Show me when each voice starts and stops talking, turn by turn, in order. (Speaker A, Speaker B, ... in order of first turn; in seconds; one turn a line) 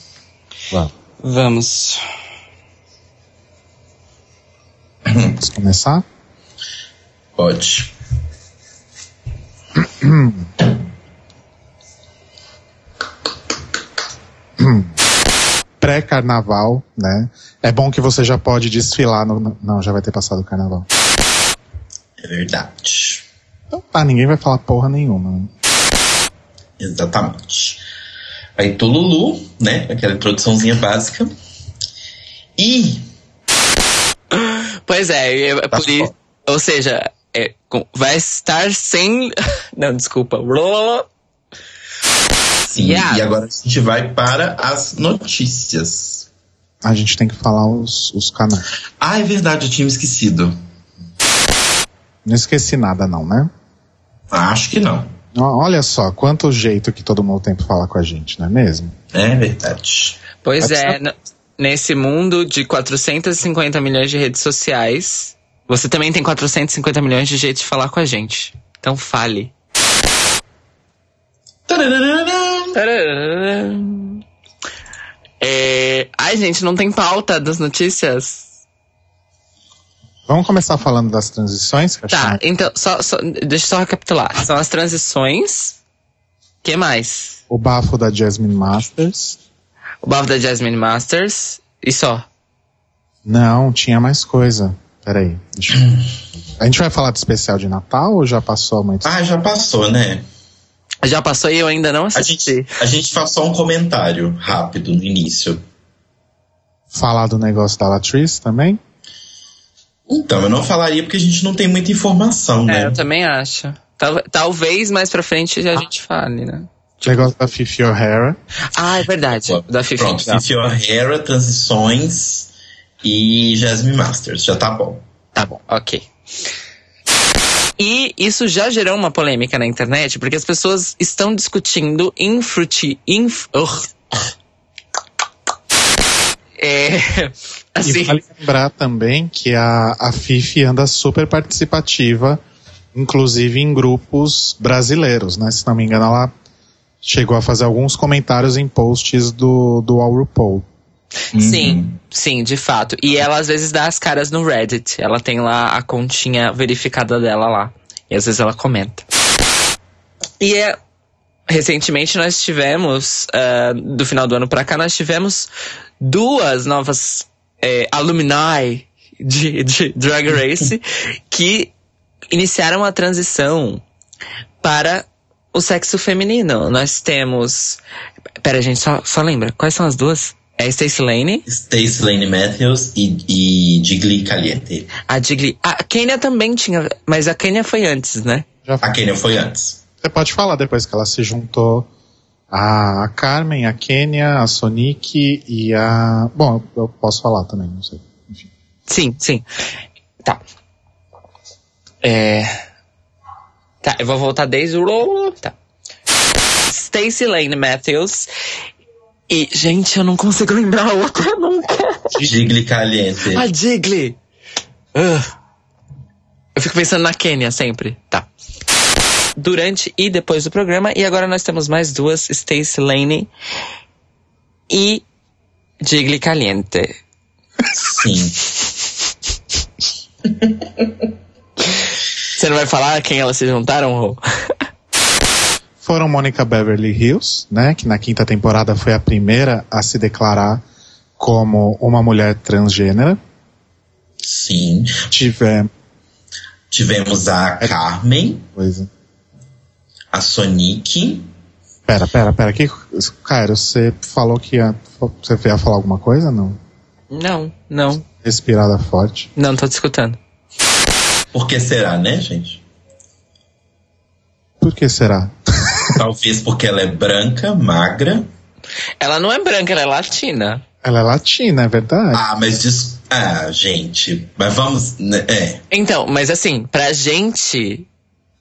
Speaker A: 1.2-2.0
Speaker B: 5.0-5.4
Speaker C: 5.4-6.0
Speaker B: 7.4-7.9
Speaker C: 9.8-10.5
Speaker C: 14.6-15.0
Speaker C: 15.8-20.9
Speaker B: 22.2-23.3
Speaker C: 23.7-25.5
Speaker B: 26.8-27.8
Speaker B: 28.6-31.3
Speaker B: 32.6-33.1
Speaker A: 34.3-41.1
Speaker B: 35.7-36.1
Speaker B: 42.7-46.3
Speaker A: 42.8-43.3
Speaker C: 46.8-48.7
Speaker B: 49.0-50.6
Speaker C: 52.2-53.5
Speaker B: 54.3-55.1
Speaker C: 55.3-58.9
Speaker B: 59.1-60.2
Speaker A: 60.4-69.5
Speaker C: 60.6-61.0
Speaker B: 71.7-72.8
Speaker A: 72.8-74.2
Speaker A: 75.4-78.5
Speaker C: 80.3-82.4
Speaker A: 82.1-85.8
Speaker A: 86.6-87.4
Speaker C: 87.5-89.4
Speaker A: 90.0-92.2
Speaker C: 93.2-95.9
Speaker C: 96.6-99.1
Speaker B: 99.0-100.2
Speaker A: 101.0-102.8
Speaker B: 102.2-105.6
Speaker C: 106.9-108.8
Speaker B: 110.1-113.0
Speaker A: 112.7-117.1
Speaker C: 117.0-118.4
Speaker A: 118.7-120.3
Speaker B: 119.5-122.5
Speaker B: 123.0-125.0
Speaker C: 125.3-125.6
Speaker A: 125.7-126.1
Speaker A: 127.8-133.9
Speaker A: 136.6-138.2
Speaker C: 137.8-142.4
Speaker C: 142.9-146.3
Speaker C: 147.0-150.7
Speaker A: 151.3-159.0
Speaker B: 151.3-152.0
Speaker A: 160.4-160.8
Speaker A: 161.5-165.5
Speaker A: 166.0-171.7
Speaker A: 172.3-173.8
Speaker A: 174.6-177.8
Speaker A: 178.4-181.4
Speaker B: 181.5-184.9
Speaker A: 185.0-188.4
Speaker C: 188.7-188.9
Speaker B: 188.8-189.8
Speaker C: 190.0-191.9
Speaker C: 192.5-198.5
Speaker A: 198.9-199.4
Speaker A: 202.0-202.6
Speaker A: 203.8-205.5
Speaker A: 206.7-208.3
Speaker A: 209.3-212.2
Speaker B: 212.2-213.4
Speaker A: 213.3-214.2
Speaker A: 214.9-215.3
Speaker A: 216.6-218.3
Speaker A: 219.4-223.3
Speaker A: 224.7-225.0
Speaker A: 225.8-227.0
Speaker B: 227.8-228.4
Speaker A: 232.3-234.2
Speaker C: 235.8-240.6
Speaker C: 241.2-243.2
Speaker B: 244.2-245.1
Speaker C: 245.1-245.7
Speaker B: 246.7-248.4
Speaker C: 248.5-248.9
Speaker B: 250.1-251.3
Speaker C: 251.9-256.6
Speaker A: 257.1-258.0
Speaker C: 258.1-259.3
Speaker A: 259.4-260.2
Speaker B: 261.3-262.6
Speaker C: 264.6-266.0
Speaker B: 265.9-268.3
Speaker A: 269.0-270.6
Speaker C: 270.8-272.2
Speaker B: 272.1-275.6
Speaker A: 275.7-277.9